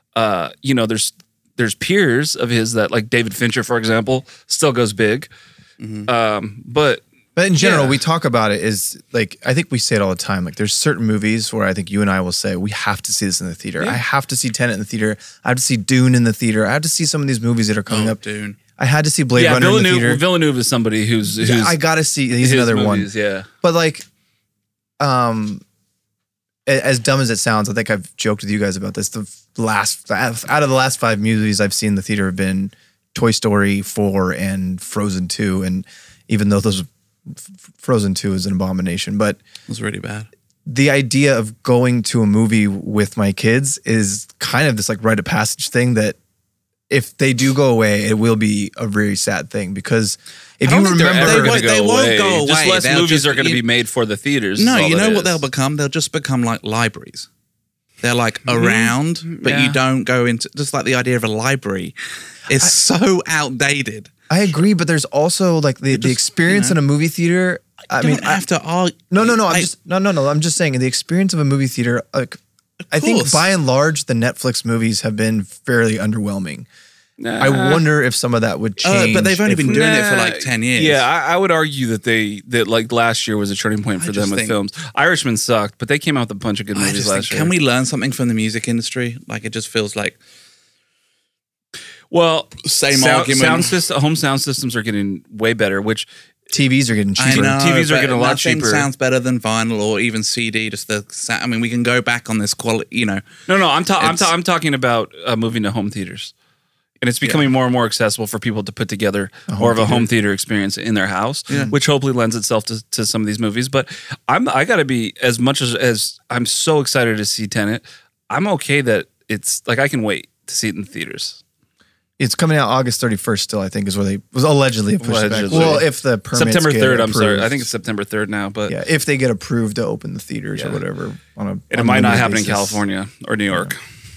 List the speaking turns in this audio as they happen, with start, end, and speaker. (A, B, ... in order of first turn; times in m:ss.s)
0:00.2-0:05.3 A
0:05.8-0:06.1 B
0:06.1-0:07.0 A
0:07.4-0:18.2 C
0:17.9-0:18.6 B
0:18.8-0:20.2 C
0:19.4-0:21.8 A
0:21.4-0:23.1 C
0:22.4-0:23.5 A
0:23.6-0:24.1 C
0:25.0-0:25.6 C
0:26.7-0:39.4 C
0:39.7-0:40.3 B
0:40.7-0:46.2 C
0:46.9-0:51.6 C
0:50.6-0:55.4 A
0:51.2-0:53.6 B
0:54.6-0:57.3 B
0:58.0-1:02.0 B
0:58.6-0:59.8 A
1:02.5-1:04.1 B
1:04.3-1:08.4 C
1:05.9-1:06.8 B
1:07.9-1:09.7 B
1:09.1-1:12.4 C
1:12.8-1:13.5 B
1:12.9-1:16.7 C
1:17.2-1:17.8 A
1:17.4-1:19.9 C
1:18.8-1:21.0 B
1:19.7-1:27.5 A
1:24.0-1:24.6 B
1:26.7-1:30.2 B
1:32.1-1:36.1 A
1:32.6-1:33.7 B
1:36.5-1:37.5 C
1:37.2-1:43.2 B
1:37.3-1:38.9 A
1:43.5-1:46.3 A
1:44.0-1:44.3 B
1:47.0-2:01.4 A
1:49.5-1:50.1 C
2:02.2-2:07.7 C
2:05.0-2:08.8 A
2:08.7-2:12.8 C
2:11.7-2:13.8 A